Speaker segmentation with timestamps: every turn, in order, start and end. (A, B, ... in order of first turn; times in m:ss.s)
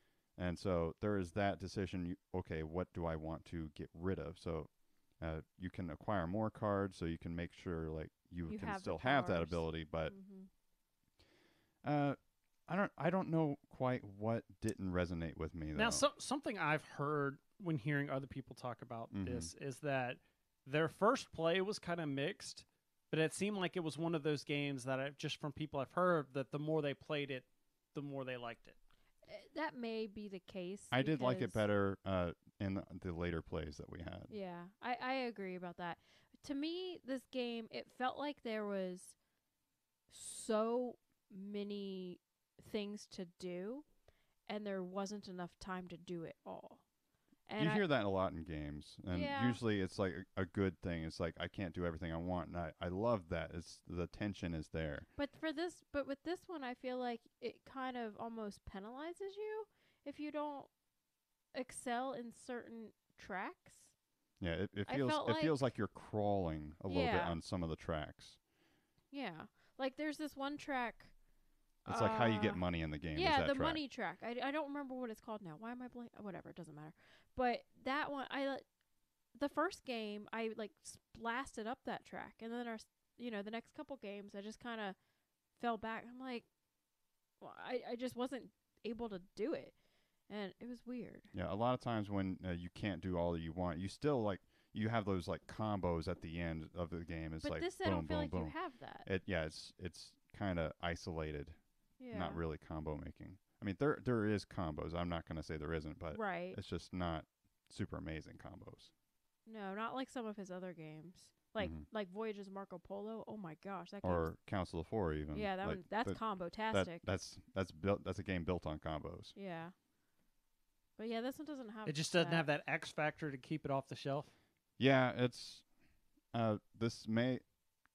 0:00.3-0:10.2 A
0:08.5-0:10.5 B
0:11.8-0:16.0 A
0:15.8-0:28.8 C
0:19.1-0:19.5 A
0:29.3-0:31.6 B
0:30.9-0:34.3 A
0:34.3-0:39.2 B
0:40.1-0:43.9 B
0:44.5-0:46.8 B
0:47.5-0:47.8 B
0:47.6-0:55.1 A
0:49.1-0:49.6 B
0:55.2-1:00.7 B
1:01.5-1:03.9 B
1:04.4-1:08.4 A
1:04.9-1:05.6 B
1:06.9-1:07.4 B
1:09.1-1:11.1 B
1:11.8-1:18.6 B
1:11.9-1:13.8 A
1:19.4-1:25.0 B
1:25.6-1:26.5 B
1:27.4-1:29.8 B
1:30.3-1:31.3 B
1:31.3-1:41.6 A
1:37.4-1:39.1 B
1:42.0-1:42.4 B
1:42.1-1:48.9 A
1:46.1-1:46.6 B
1:49.5-1:54.4 B
1:51.6-1:51.8 A
1:54.0-1:59.4 A
1:55.3-1:57.0 B
1:59.4-1:59.7 B
2:01.0-2:02.5 B
2:01.9-2:04.3 C
2:04.8-2:05.7 A
2:06.3-2:07.4 A